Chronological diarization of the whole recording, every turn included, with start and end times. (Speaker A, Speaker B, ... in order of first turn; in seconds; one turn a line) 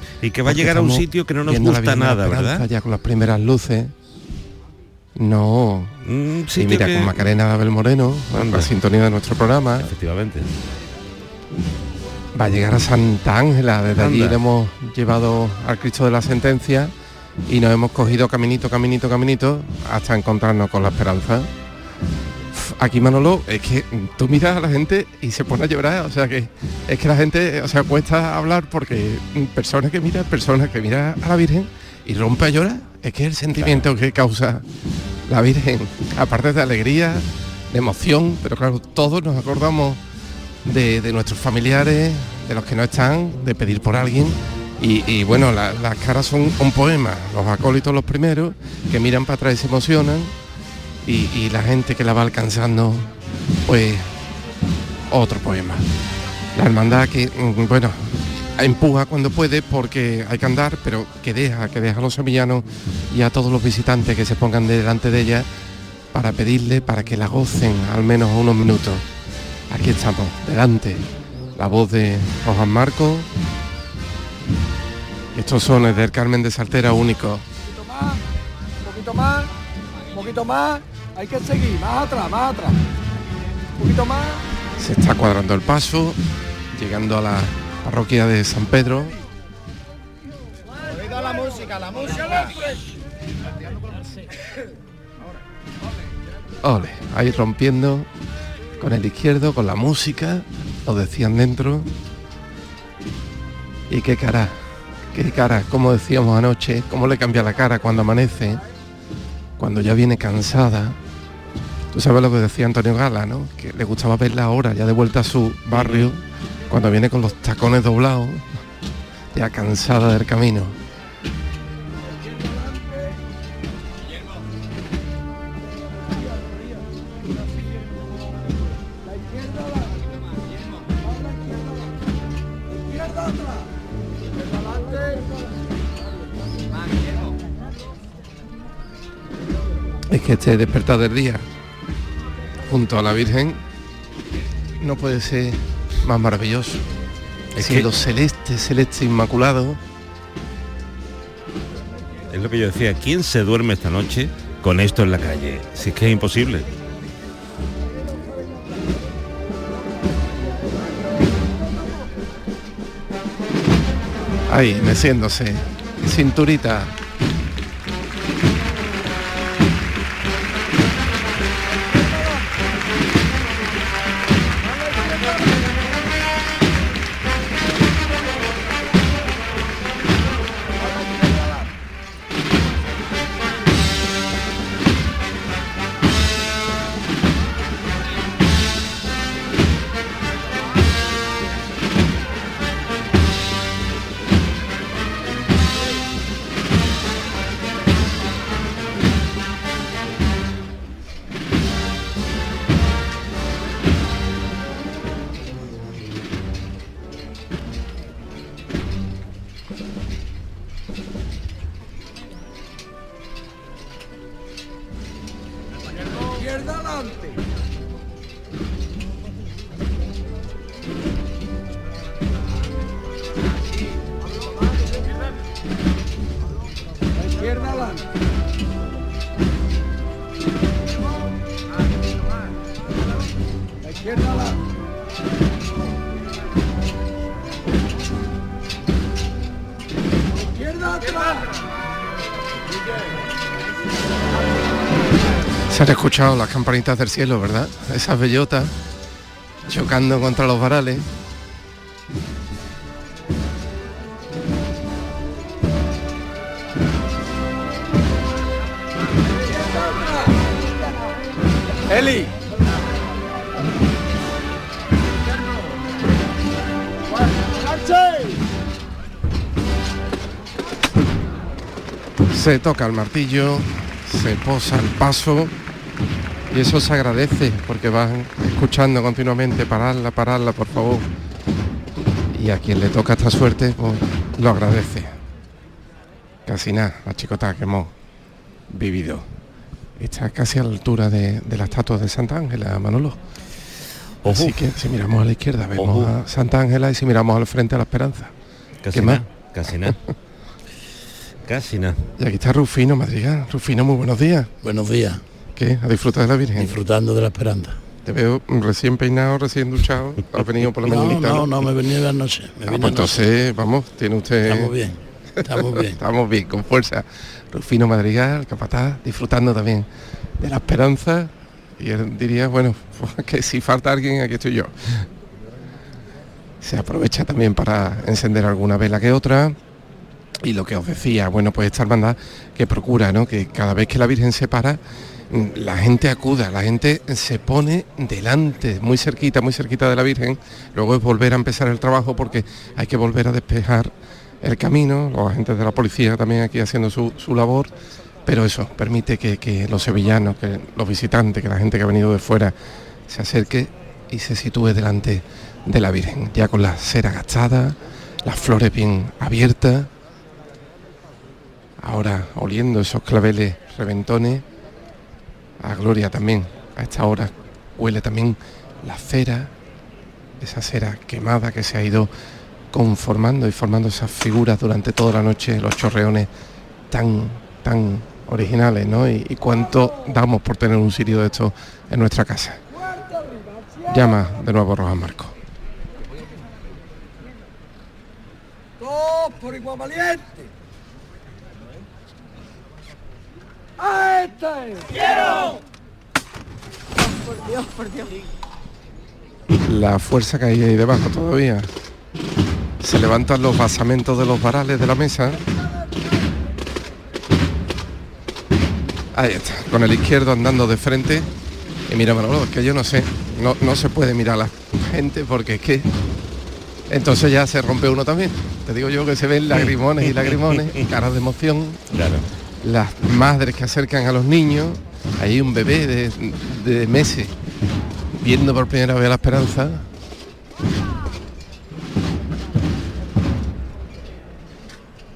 Speaker A: 0.2-2.6
Speaker B: 0.5-3.9
Speaker B: 5.2-5.9
Speaker A: 6.0-7.2
Speaker B: 6.5-9.9
Speaker A: 8.3-8.7
Speaker A: 9.8-10.5
Speaker B: 12.3-16.9
Speaker A: 14.0-14.4
Speaker B: 17.5-21.5
Speaker B: 22.5-34.6
Speaker A: 33.5-33.9
Speaker B: 35.3-40.0
Speaker B: 40.6-50.3
Speaker B: 51.0-53.1
Speaker B: 53.6-54.1
Speaker B: 55.1-55.9
Speaker B: 56.5-65.5
Speaker B: 66.1-69.0
Speaker B: 69.7-71.0
Speaker B: 71.5-73.3
Speaker B: 75.3-77.4
Speaker C: 77.7-78.2
Speaker C: 78.8-79.5
Speaker C: 80.1-82.8
Speaker C: 83.8-84.4
Speaker B: 84.8-86.2
Speaker B: 86.7-89.1
Speaker B: 96.6-98.1
Speaker B: 98.8-101.9
Speaker B: 103.9-108.6
Speaker B: 109.6-111.0
Speaker B: 111.9-118.5
Speaker A: 115.7-116.1
Speaker B: 119.3-120.8
Speaker C: 122.2-123.1
Speaker C: 126.0-126.9
Speaker C: 129.0-130.0
Speaker C: 131.0-131.9
Speaker C: 132.9-133.7
Speaker C: 134.4-135.5
Speaker B: 140.1-141.4
Speaker B: 142.7-143.6
Speaker B: 144.8-146.8
Speaker A: 147.6-147.9
Speaker B: 147.6-149.8
Speaker A: 152.3-156.7
Speaker B: 164.5-166.9
Speaker C: 174.6-175.6
Speaker C: 216.3-217.4
Speaker C: 227.2-228.0
Speaker C: 233.8-234.6
Speaker C: 240.5-241.5
Speaker B: 245.7-248.7
Speaker B: 249.7-251.1
Speaker C: 259.6-260.5
Speaker C: 261.9-262.3
Speaker B: 272.3-275.5
Speaker B: 276.5-281.1
Speaker B: 282.3-285.1
Speaker B: 286.5-287.9
Speaker B: 288.7-289.2
Speaker B: 290.0-293.2
Speaker A: 294.2-294.6
Speaker B: 294.2-298.3
Speaker A: 295.8-296.1
Speaker A: 298.8-299.9
Speaker B: 298.9-300.0
Speaker A: 301.4-302.0
Speaker B: 302.2-304.5
Speaker D: 304.6-305.2
Speaker B: 305.6-306.8
Speaker D: 306.6-307.8
Speaker B: 308.1-311.7
Speaker D: 310.8-313.2
Speaker B: 312.7-314.8
Speaker D: 314.4-316.0
Speaker B: 315.5-319.9
Speaker B: 320.4-325.1
Speaker B: 326.6-329.6
Speaker B: 330.4-347.7
Speaker B: 348.2-352.5
Speaker B: 353.1-359.9
Speaker B: 361.8-364.4
Speaker B: 365.6-369.5
Speaker B: 370.4-372.1
Speaker B: 372.7-376.3
Speaker B: 376.9-382.6
Speaker C: 382.8-384.3
Speaker B: 383.9-385.3
Speaker C: 388.8-390.5
Speaker C: 393.8-395.4
Speaker B: 399.7-401.7
Speaker B: 402.8-405.4
Speaker B: 409.1-411.3
Speaker B: 411.9-415.9
Speaker B: 416.9-421.8
Speaker A: 419.5-420.7
Speaker A: 421.9-422.2
Speaker B: 422.6-427.3
Speaker B: 428.2-429.9